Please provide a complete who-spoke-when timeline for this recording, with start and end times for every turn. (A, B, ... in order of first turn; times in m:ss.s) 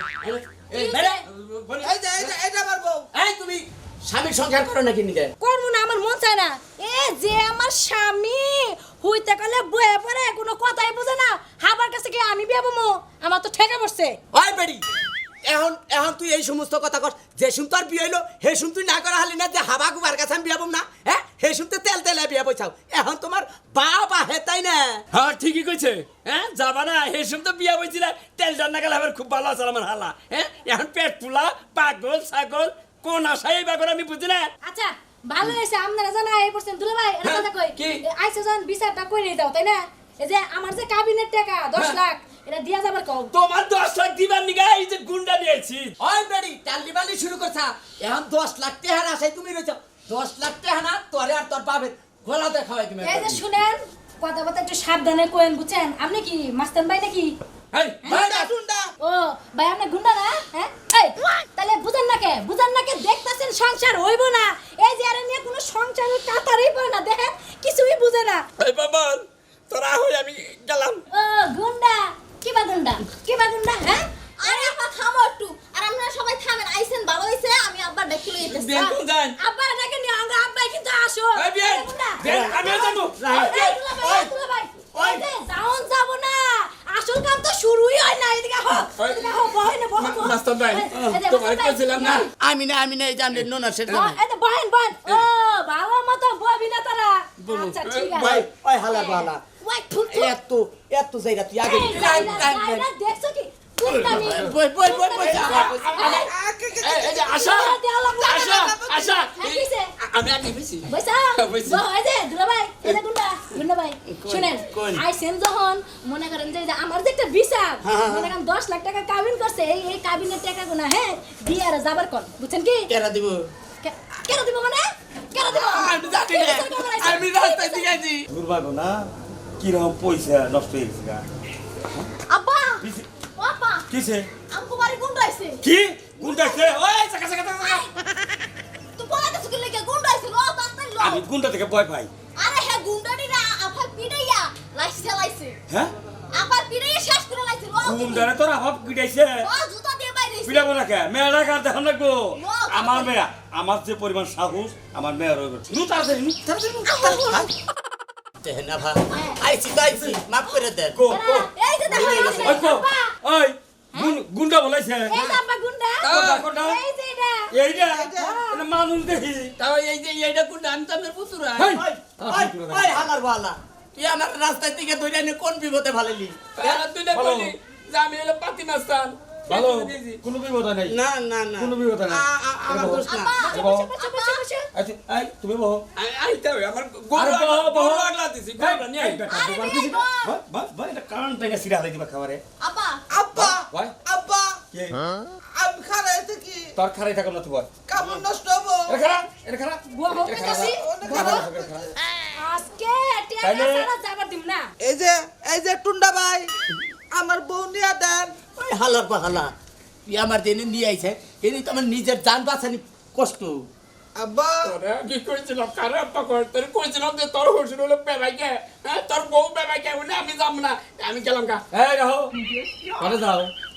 0:00.2-0:01.2 A
0:00.7-0:01.2 B
0:01.3-0:02.3 C
0:01.8-0:03.1 D
0:03.1-0:05.3 A
0:05.4-0:14.2 B
0:14.3-0:14.8 A
0:15.4-0:25.0 A
0:25.1-0:34.5 C
0:34.6-0:43.3 B
0:37.2-0:38.0 C
0:43.3-0:45.9 C
0:46.0-0:53.4 A
0:53.0-0:57.4 B
0:58.0-0:58.3 B
0:58.1-0:58.9 D
0:59.0-1:08.4 B
1:08.6-1:11.0 C
1:11.1-1:14.8 B
1:14.4-1:19.0 E
1:18.5-1:19.4 C
1:19.4-1:32.3 B
1:21.4-1:23.5 C
1:22.3-1:22.6 A
1:23.2-1:24.3 A
1:25.0-1:25.2 A
1:29.0-1:29.4 C
1:30.0-1:32.3 C
1:30.9-1:31.2 A
1:32.4-1:34.2 A
1:33.3-1:34.1 C
1:33.9-1:40.4 B
1:37.4-1:38.5 C
1:38.5-1:39.4 A
1:40.1-1:42.9 A
1:41.6-1:46.3 B
1:43.8-1:44.6 C
1:44.1-1:46.0 A
1:45.1-1:46.3 C
1:46.0-1:47.5 D
1:46.8-1:51.9 C
1:47.3-1:48.7 B
1:48.4-1:49.2 D
1:49.4-1:49.9 B
1:50.9-2:02.9 B
1:54.1-1:55.0 A
1:57.8-1:58.3 A
2:02.9-2:03.5 A
2:03.8-2:08.0 B
2:05.5-2:08.2 C
2:08.3-2:11.2 F
2:12.3-2:12.8 E
2:12.8-2:13.1 F
2:13.4-2:13.8 E
2:13.9-2:14.3 F
2:14.5-2:15.6 E
2:15.6-2:17.0 F
2:16.2-2:16.8 E
2:17.0-2:17.6 C
2:17.6-2:17.9 E
2:19.0-2:21.2 E
2:21.0-2:22.1 F
2:22.4-2:25.6 E
2:26.3-2:28.3 E
2:27.8-2:29.5 F
2:29.4-2:30.7 E
2:30.4-2:36.4 F
2:32.4-2:33.1 E
2:36.5-2:37.3 D
2:36.9-2:37.5 E
2:38.4-2:41.0 A
2:39.1-2:39.4 E
2:39.9-2:40.2 F
2:40.9-2:45.2 F
2:41.1-2:43.0 B
2:41.9-2:42.6 E
2:45.1-2:48.6 B
2:46.0-2:46.5 C
2:46.1-2:46.8 F
2:47.5-2:49.5 F
2:49.6-2:51.8 C
2:51.6-2:53.1 F
2:51.7-2:56.8 A
2:56.6-3:00.2 C
2:57.1-2:57.5 F
2:59.5-3:01.0 F
3:00.9-3:03.4 A
3:01.6-3:03.9 F
3:02.9-3:04.4 E
3:03.4-3:04.6 B
3:04.7-3:05.8 F
3:06.0-3:09.2 C
3:07.2-3:12.4 F
3:09.2-3:10.4 E
3:12.6-3:13.0 E
3:13.1-3:14.6 D
3:13.4-3:14.0 F
3:14.7-3:15.0 F
3:15.5-3:16.6 D
3:16.8-3:17.7 F
3:17.9-3:19.0 D
3:18.9-3:21.8 F
3:19.9-3:21.4 B
3:20.4-3:21.9 D
3:22.4-3:24.7 B
3:23.4-3:23.9 F
3:24.8-3:26.5 D
3:27.1-3:28.4 D
3:28.5-3:29.5 A
3:30.1-3:33.7 A
3:34.2-3:34.8 D
3:34.6-3:41.6 C
3:41.7-3:42.3 F
3:42.5-3:43.1 C
3:43.0-3:43.5 F